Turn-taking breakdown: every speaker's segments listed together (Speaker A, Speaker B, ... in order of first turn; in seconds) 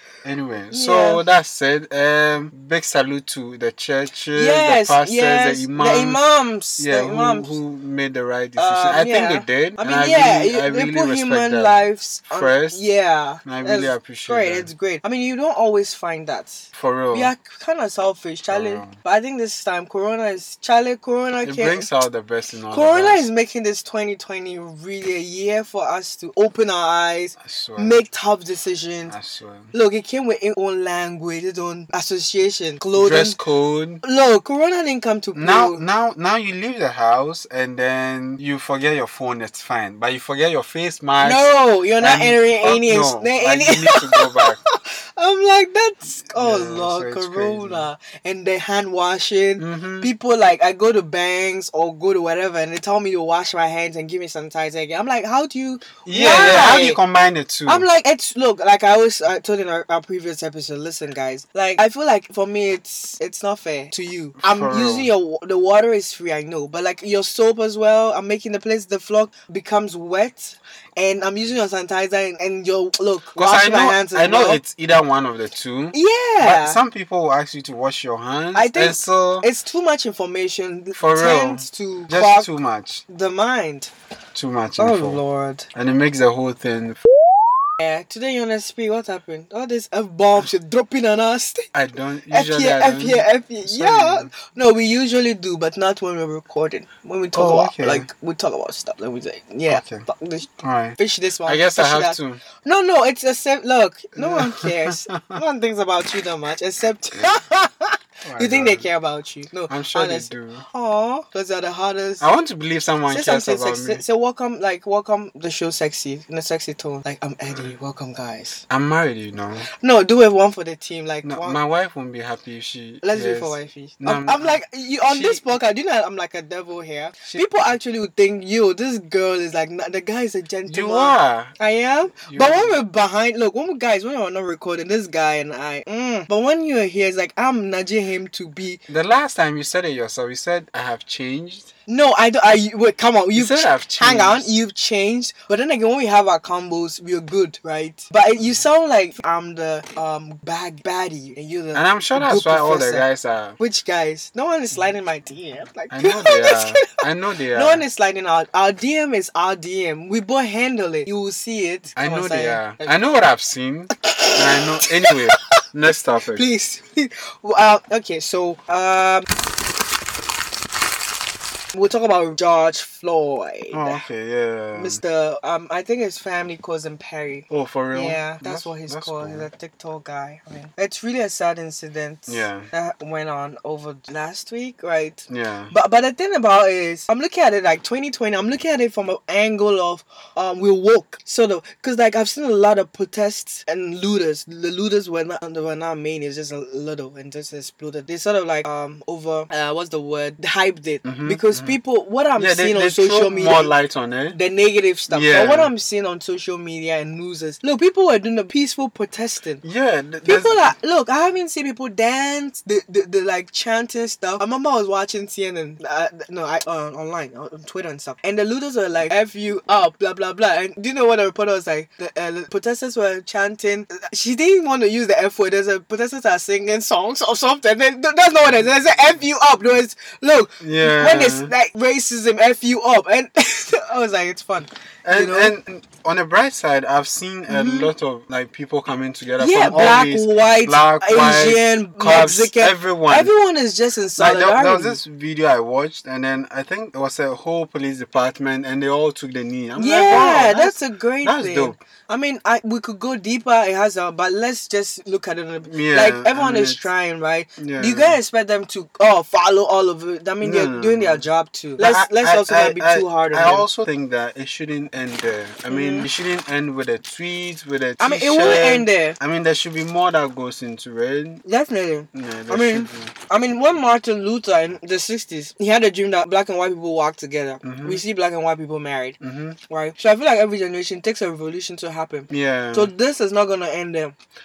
Speaker A: 0.2-6.2, 6.8-12.8, 13.4-14.7, 16.7-17.3, 18.5-19.0, 21.4-23.3, 27.4-28.0, 29.1-29.7, 33.0-34.0, 35.4-44.6, 46.3-47.9, 49.6-50.1, 56.0-57.9, 64.4-65.1, 73.4-79.5, 81.0-83.0, 84.3-85.2, 85.8-87.0, 91.7-94.3, 97.3-98.1, 99.7-100.1, 100.6-102.4, 104.2-105.4, 108.2-108.9, 109.7-110.7, 112.2-114.0, 118.7-119.7, 121.2-125.5, 130.7-131.5, 132.3-132.8, 138.9-141.7, 143.3-144.5, 151.7-153.6, 155.9-157.8, 162.0-166.5, 173.7-175.0, 177.5-179.5, 182.3-182.7, 185.3-185.7, 201.1-201.8, 202.4-204.4, 205.1-205.7, 209.6-210.6, 230.6-231.5, 235.1-243.3, 244.2-251.8, 255.7-256.9, 257.6-258.2, 260.4-261.2, 261.8-271.4, 272.1-273.1, 277.6-278.0, 279.2-279.6, 282.3-282.9
Speaker B: 0.7-1.2, 4.3-7.6, 8.6-21.9, 22.7-29.2, 29.7-33.4, 34.0-35.8, 41.2-57.0, 57.7-74.6, 75.9-76.8, 78.5-82.5, 83.1-83.9, 84.8-85.7, 87.8-91.7, 92.3-112.3, 113.1-118.7, 119.8-121.6, 123.0-138.8, 141.9-153.1, 153.6-157.0, 157.5-162.9, 164.0-165.4, 166.3-169.3, 171.7-174.0, 174.7-203.7, 204.3-209.6, 210.2-235.5, 237.5-237.9, 239.4-245.0, 249.8-263.7, 265.7-266.1, 268.0-269.2, 271.4-284.1